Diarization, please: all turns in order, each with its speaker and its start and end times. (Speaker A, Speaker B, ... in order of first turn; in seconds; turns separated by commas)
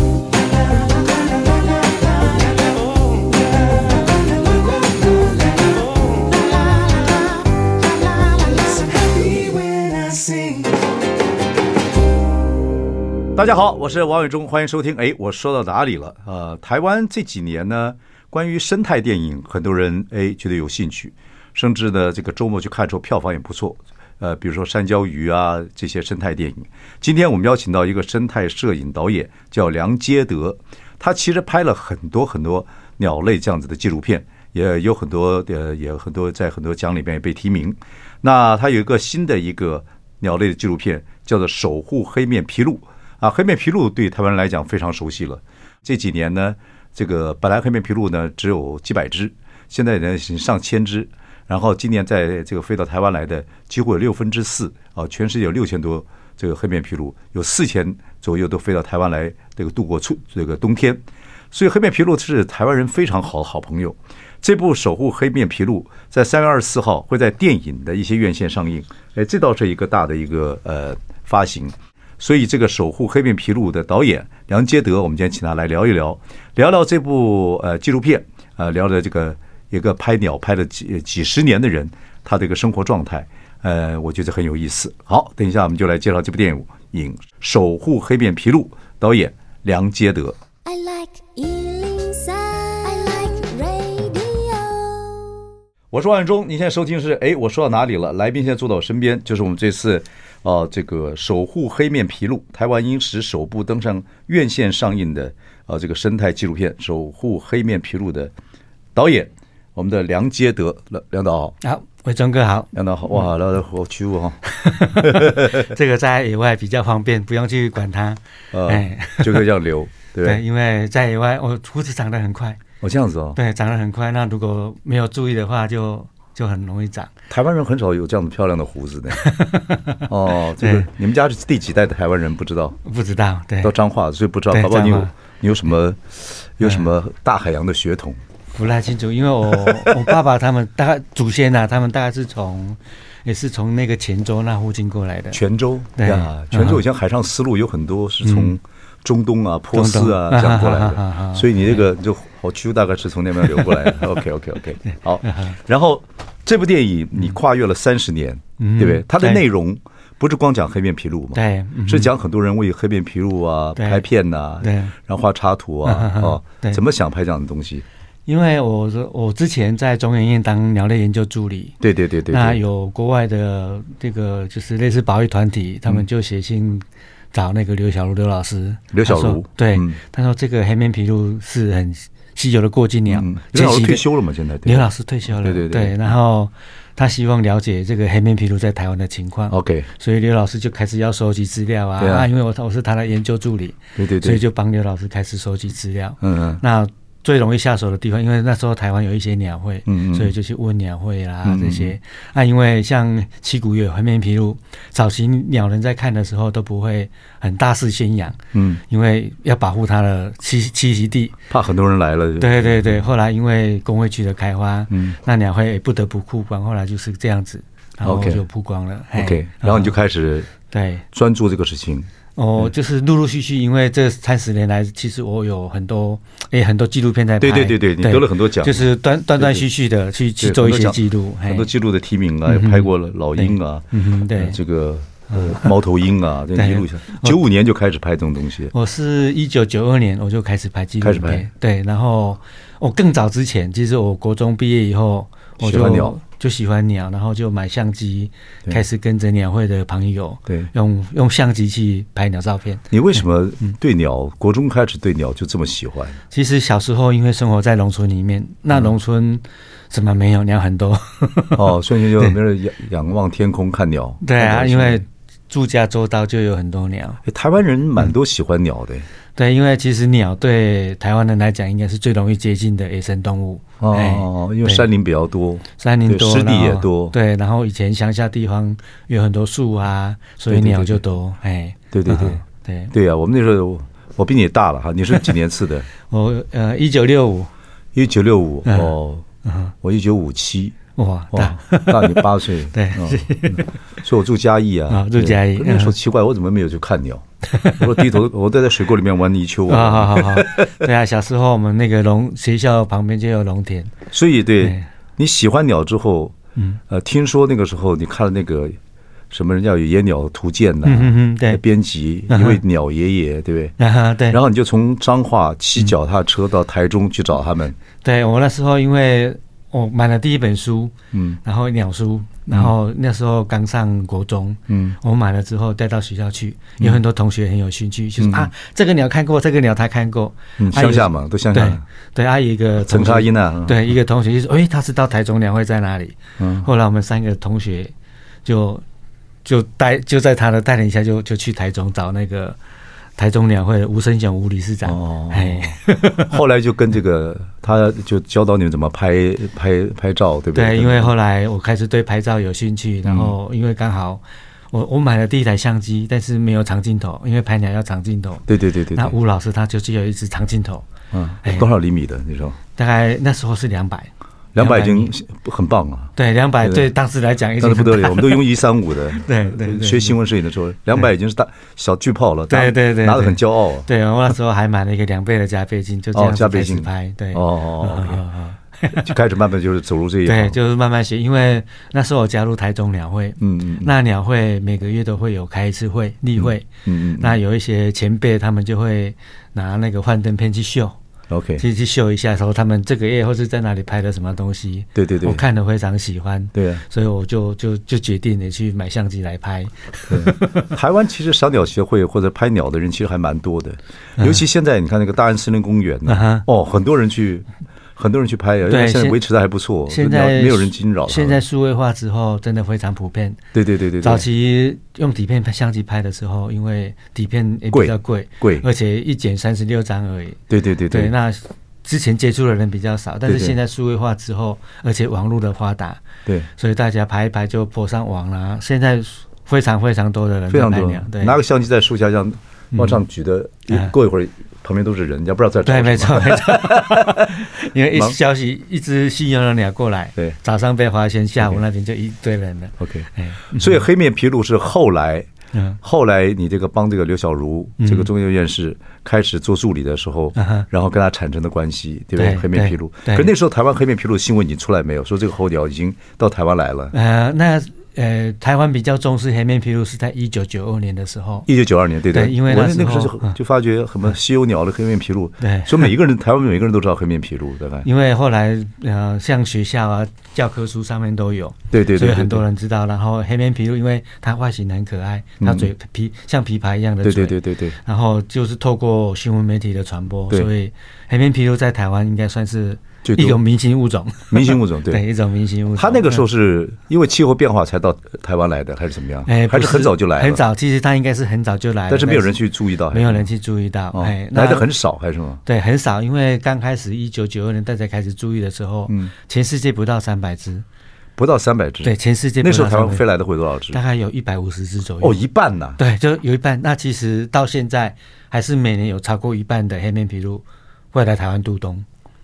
Speaker A: 0.7-3.3, Speaker A: 4.2-10.8, Speaker B: 13.3-90.4, Speaker A: 90.7-95.4, Speaker B: 95.9-108.3, Speaker B: 109.0-111.6, Speaker C: 111.6-112.7, Speaker B: 112.7-115.7, Speaker C: 114.5-119.5, Speaker B: 118.5-120.4, Speaker C: 120.2-122.6, Speaker B: 122.8-123.4, Speaker C: 123.3-127.1, Speaker B: 127.3-129.2, Speaker C: 129.1-130.1, Speaker B: 130.1-132.8, Speaker C: 130.6-130.9, Speaker C: 132.8-133.7, Speaker B: 133.6-138.2, Speaker C: 134.5-135.1, Speaker C: 138.6-145.4, Speaker B: 139.6-140.1, Speaker B: 145.3-167.8, Speaker C: 146.0-146.8, Speaker C: 148.2-148.5, Speaker C: 149.7-151.8, Speaker C: 154.9-155.6, Speaker C: 158.6-159.4, Speaker C: 161.3-162.1, Speaker C: 163.8-164.0, Speaker C: 164.6-164.9, Speaker C: 165.8-166.8, Speaker C: 168.3-171.8, Speaker B: 171.8-172.6, Speaker C: 172.3-184.1, Speaker B: 178.9-180.0, Speaker B: 183.1-186.0, Speaker C: 184.7-211.4, Speaker B: 189.5-189.9, Speaker B: 192.0-192.3, Speaker B: 194.0-194.4, Speaker B: 196.2-196.6, Speaker B: 199.9-200.3, Speaker B: 201.4-201.9, Speaker B: 208.5-208.8, Speaker B: 211.5-213.1, Speaker C: 212.4-219.9, Speaker B: 218.0-218.4, Speaker B: 219.2-220.5, Speaker C: 220.7-221.1, Speaker B: 221.1-222.7, Speaker C: 222.4-231.7, Speaker B: 227.4-229.7, Speaker B: 230.4-238.7, Speaker C: 232.5-234.6, Speaker C: 235.3-235.7, Speaker C: 236.6-237.4, Speaker C: 238.7-252.8, Speaker B: 241.0-241.5, Speaker B: 245.6-246.2, Speaker B: 252.9-256.2, Speaker C: 256.3-261.7, Speaker B: 261.6-265.0, Speaker C: 264.2-267.2, Speaker B: 267.2-269.1, Speaker C: 269.4-274.9, Speaker B: 273.8-277.1, Speaker C: 275.8-282.9, Speaker B: 280.5-281.0, Speaker B: 281.9-282.4, Speaker B: 282.9-285.9, Speaker C: 286.1-287.5, Speaker B: 287.9-289.2, Speaker C: 288.7-288.9, Speaker C: 289.4-289.7, Speaker B: 289.8-290.8, Speaker C: 291.0-293.7, Speaker B: 291.3-300.9, Speaker C: 294.9-295.9, Speaker C: 297.5-297.8, Speaker C: 299.7-303.9, Speaker B: 304.1-306.4, Speaker C: 304.6-304.9, Speaker B: 306.9-308.8, Speaker B: 309.3-313.7, Speaker C: 310.8-311.6, Speaker C: 312.3-312.6, Speaker C: 313.8-314.4, Speaker B: 314.3-317.8, Speaker C: 318.0-337.9, Speaker B: 321.1-321.4, Speaker B: 324.7-325.0, Speaker B: 328.2-328.5, Speaker B: 330.6-331.8, Speaker B: 332.9-333.9, Speaker B: 336.4-336.7, Speaker C: 338.4-338.8, Speaker C: 339.4-342.6, Speaker C: 343.2-346.3, Speaker B: 344.9-351.1, Speaker C: 350.6-360.9, Speaker B: 353.1-353.3, Speaker B: 358.5-359.1, Speaker B: 361.1-362.6, Speaker C: 362.8-365.1, Speaker B: 364.6-366.9, Speaker C: 366.2-368.4, Speaker B: 367.6-373.9, Speaker C: 369.1-370.2, Speaker C: 372.5-379.1, Speaker B: 376.1-378.3, Speaker B: 378.9-380.6, Speaker C: 380.2-391.0, Speaker B: 383.4-383.9, Speaker B: 386.4-387.4, Speaker B: 391.3-391.6, Speaker C: 391.6-400.7, Speaker B: 394.9-395.4, Speaker B: 396.6-396.8, Speaker B: 400.1-411.4, Speaker C: 404.2-404.4, Speaker C: 406.1-406.5, Speaker C: 408.7-409.2, Speaker C: 409.9-413.4, Speaker B: 413.5-414.3, Speaker C: 414.0-431.4, Speaker B: 417.7-418.6, Speaker B: 420.5-421.1, Speaker B: 423.3-423.5, Speaker B: 430.5-438.2, Speaker C: 432.7-433.0, Speaker C: 435.6-443.9, Speaker B: 442.8-445.3, Speaker B: 445.8-456.9, Speaker C: 447.8-448.1, Speaker C: 450.4-450.7, Speaker C: 452.2-453.3, Speaker C: 456.9-461.5, Speaker B: 461.5-467.9, Speaker C: 462.1-463.4, Speaker C: 465.4-465.9, Speaker C: 467.8-486.2, Speaker B: 471.7-472.4, Speaker B: 475.4-475.7, Speaker B: 477.0-477.8, Speaker B: 483.0-483.4, Speaker B: 484.3-485.0, Speaker B: 485.8-490.4, Speaker C: 489.3-492.3, Speaker B: 491.9-493.3, Speaker C: 492.9-494.7, Speaker B: 493.9-495.4, Speaker C: 495.4-500.6, Speaker B: 501.2-503.8, Speaker C: 501.8-503.1, Speaker C: 503.7-505.2, Speaker B: 505.0-505.8, Speaker C: 505.8-511.9